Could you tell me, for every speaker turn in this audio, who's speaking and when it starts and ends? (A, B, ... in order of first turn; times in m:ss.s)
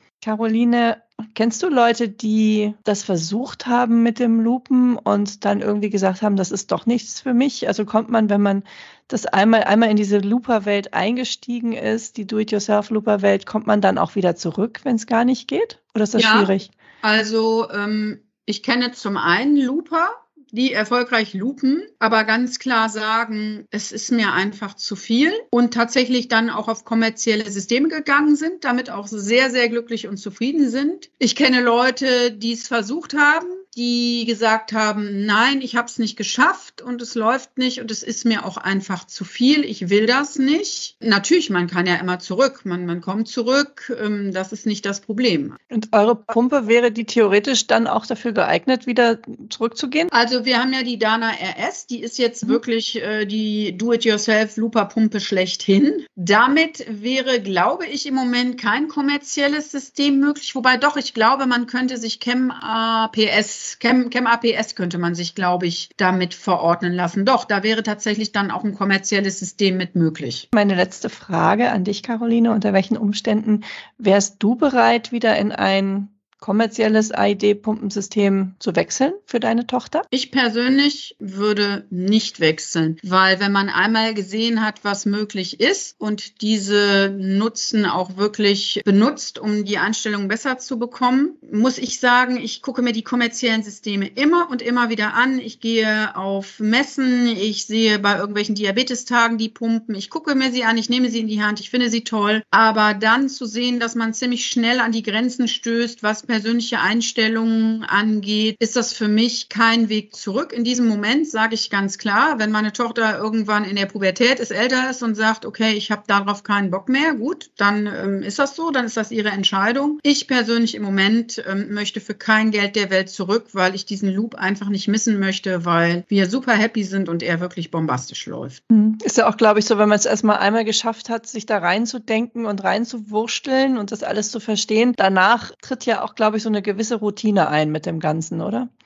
0:00.2-0:16.7 A
0:16.2-0:45.6 B
0:45.7-0:50.1 A
0:50.1-1:10.5 B
1:10.5-1:20.1 A
1:20.1-2:08.6 B
2:08.7-2:18.7 A